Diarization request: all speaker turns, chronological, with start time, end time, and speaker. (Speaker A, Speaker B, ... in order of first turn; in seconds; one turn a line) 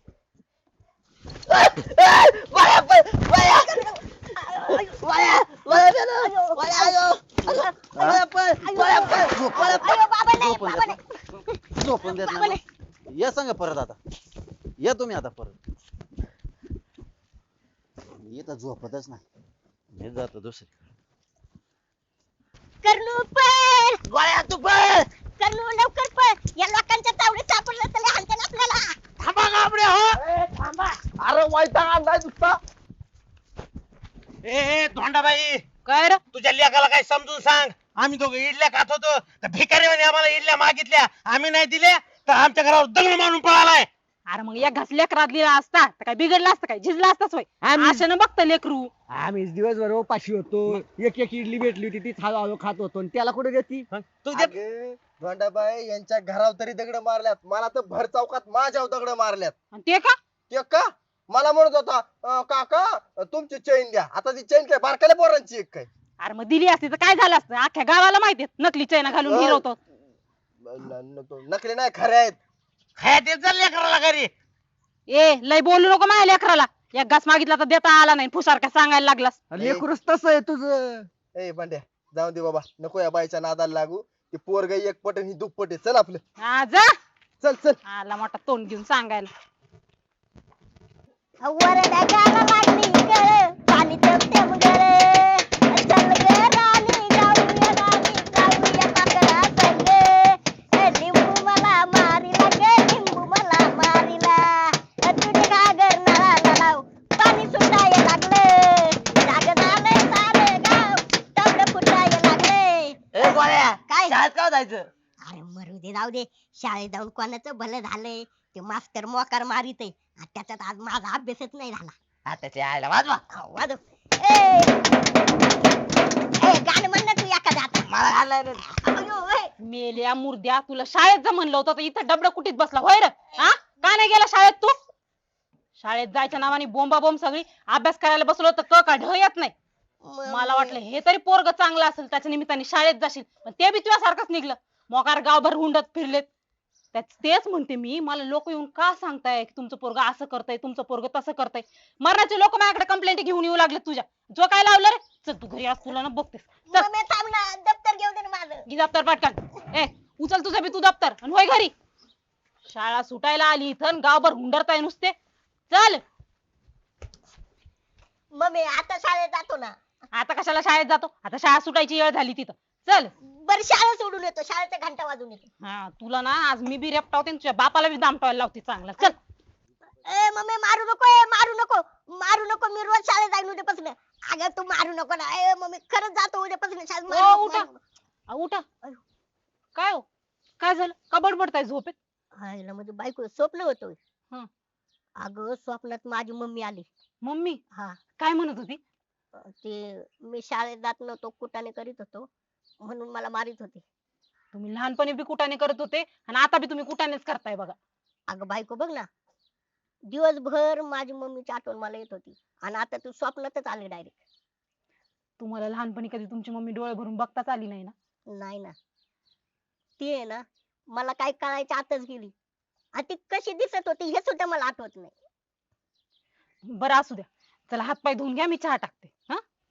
Speaker A: 1.5-3.9
Speaker B: 3.4-4.9
Speaker A: 4.6-9.3
Speaker B: 6.2-8.0
Speaker C: 7.9-11.0
Speaker B: 8.6-12.6
Speaker C: 11.7-14.0
Speaker C: 14.8-15.6
Speaker C: 18.2-19.2
Speaker C: 19.9-20.7
Speaker B: 22.8-24.0
Speaker A: 24.3-25.0
Speaker B: 25.4-29.0
Speaker D: 29.2-30.2
Speaker E: 30.2-30.6
Speaker E: 31.2-32.6
Speaker D: 34.4-35.6
Speaker F: 35.9-36.2
Speaker D: 36.3-43.9
Speaker F: 44.3-48.9
Speaker G: 47.6-48.0
Speaker G: 49.1-53.8
Speaker D: 53.9-54.5
Speaker E: 54.3-59.5
Speaker F: 59.7-60.1
Speaker E: 60.5-65.9
Speaker F: 66.2-69.8
Speaker E: 69.2-69.6
Speaker E: 70.7-72.4
Speaker D: 73.0-74.3
Speaker F: 75.1-79.4
Speaker G: 79.5-81.0
Speaker E: 79.6-79.9
Speaker E: 81.3-86.2
Speaker F: 86.4-86.9
Speaker E: 87.4-87.8
Speaker F: 87.9-89.3
Speaker B: 91.4-114.2
Speaker A: 113.1-114.9
Speaker B: 115.2-121.9
Speaker A: 122.2-123.2
Speaker B: 123.3-124.8
Speaker B: 126.4-129.5
Speaker A: 127.9-128.6
Speaker F: 129.6-134.7
Speaker F: 135.8-139.5
Speaker B: 140.0-140.8
Speaker F: 140.3-146.3
Speaker F: 146.9-156.9
Speaker B: 156.7-158.6
Speaker F: 158.7-161.7
Speaker F: 162.6-165.1
Speaker F: 165.7-166.0
Speaker B: 168.3-169.8
Speaker F: 170.1-173.1
Speaker B: 173.2-175.5
Speaker F: 175.6-179.2
Speaker B: 180.0-187.8
Speaker F: 187.1-187.7
Speaker F: 188.3-188.6
Speaker F: 189.7-190.0
Speaker F: 190.6-191.9
Speaker B: 192.3-194.0
Speaker B: 195.2-196.9
Speaker F: 197.2-197.6
Speaker B: 197.7-198.0
Speaker F: 198.2-198.8
Speaker B: 199.3-202.3
Speaker B: 202.8-203.8
Speaker F: 204.5-207.8
Speaker B: 208.3-209.1
Speaker B: 210.1-214.2
Speaker F: 215.4-217.9
Speaker B: 218.3-218.7
Speaker B: 220.0-222.3
Speaker B: 222.9-225.2
Speaker F: 226.7-229.4